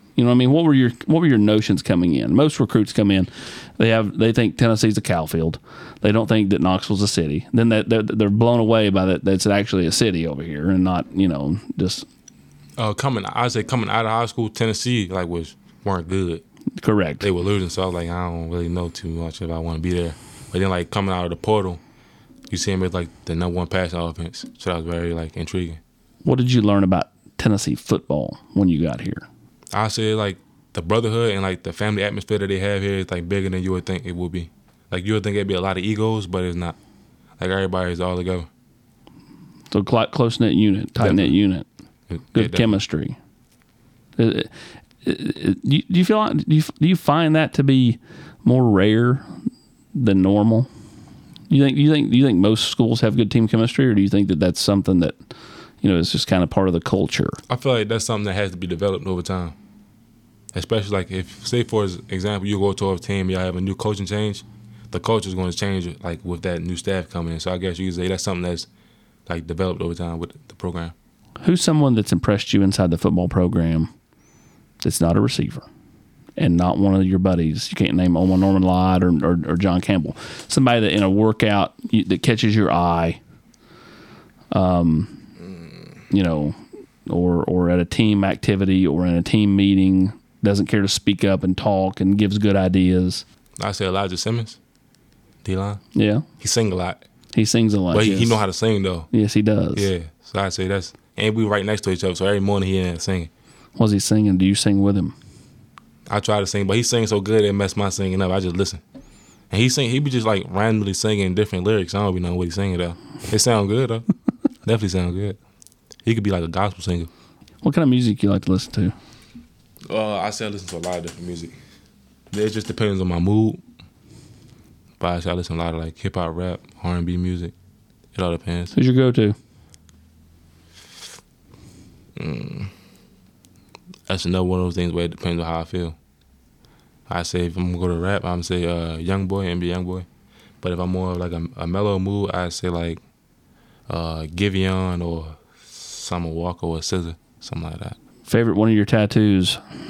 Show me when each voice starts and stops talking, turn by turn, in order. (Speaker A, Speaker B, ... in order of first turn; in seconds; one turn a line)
Speaker A: 0.2-12.1
Speaker B: 12.8-16.4
Speaker A: 16.8-17.3
Speaker B: 17.2-21.8
Speaker B: 22.5-25.8
Speaker A: 26.2-29.3
Speaker B: 29.7-36.8
Speaker B: 37.4-38.5
Speaker A: 39.7-41.7
Speaker B: 41.0-41.4
Speaker B: 42.1-42.8
Speaker A: 42.3-43.2
Speaker A: 44.2-44.5
Speaker A: 45.0-49.3
Speaker A: 49.9-50.7
Speaker A: 51.5-55.2
Speaker A: 55.8-57.4
Speaker B: 57.5-59.6
Speaker B: 60.5-68.7
Speaker B: 69.3-70.9
Speaker A: 71.4-73.9
Speaker A: 74.8-75.7
Speaker A: 76.4-83.2
Speaker A: 84.5-85.2
Speaker A: 86.1-93.2
Speaker B: 93.6-94.6
Speaker B: 95.4-95.8
Speaker A: 96.0-96.2
Speaker B: 96.4-97.0
Speaker A: 97.3-98.4
Speaker B: 97.9-99.1
Speaker A: 99.1-99.9
Speaker B: 99.8-103.3
Speaker A: 103.8-105.2
Speaker B: 106.1-108.8
Speaker B: 109.5-114.1
Speaker B: 114.6-115.4
Speaker B: 116.0-117.1
Speaker A: 117.6-118.9
Speaker B: 119.9-121.5
Speaker B: 122.3-123.6
Speaker B: 125.0-127.5
Speaker B: 128.1-128.7
Speaker A: 128.7-129.3
Speaker B: 132.2-132.7
Speaker B: 134.1-136.0
Speaker B: 137.1-140.1
Speaker B: 140.6-143.0
Speaker B: 143.9-148.0
Speaker A: 148.3-149.6